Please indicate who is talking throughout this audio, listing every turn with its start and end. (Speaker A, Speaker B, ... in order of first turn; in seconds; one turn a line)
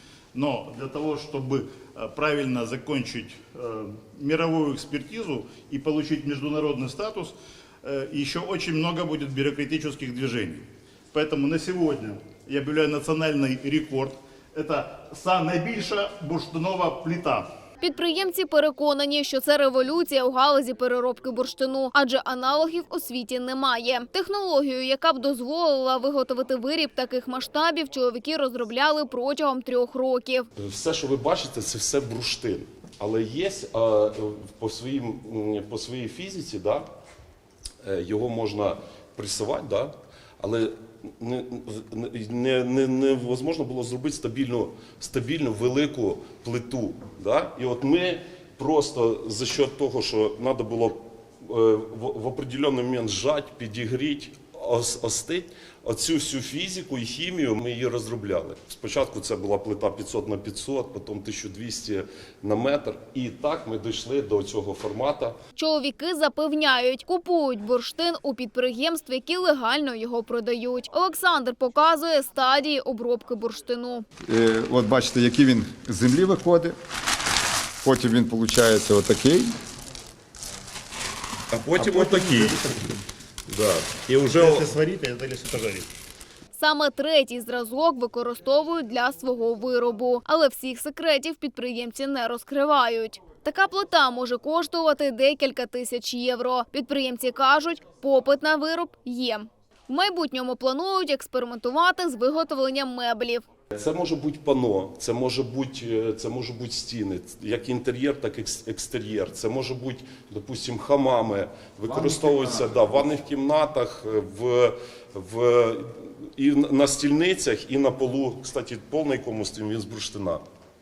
Speaker A: 0.3-17.5
Speaker B: 17.8-30.5
Speaker C: 30.6-36.8
Speaker C: 37.8-65.4
Speaker B: 65.6-74.0
Speaker D: 74.3-76.8
Speaker D: 77.8-79.5
Speaker C: 81.5-82.9
Speaker A: 81.8-82.6
Speaker C: 83.5-84.7
Speaker A: 84.3-85.9
Speaker B: 86.5-103.4
Speaker C: 103.7-120.4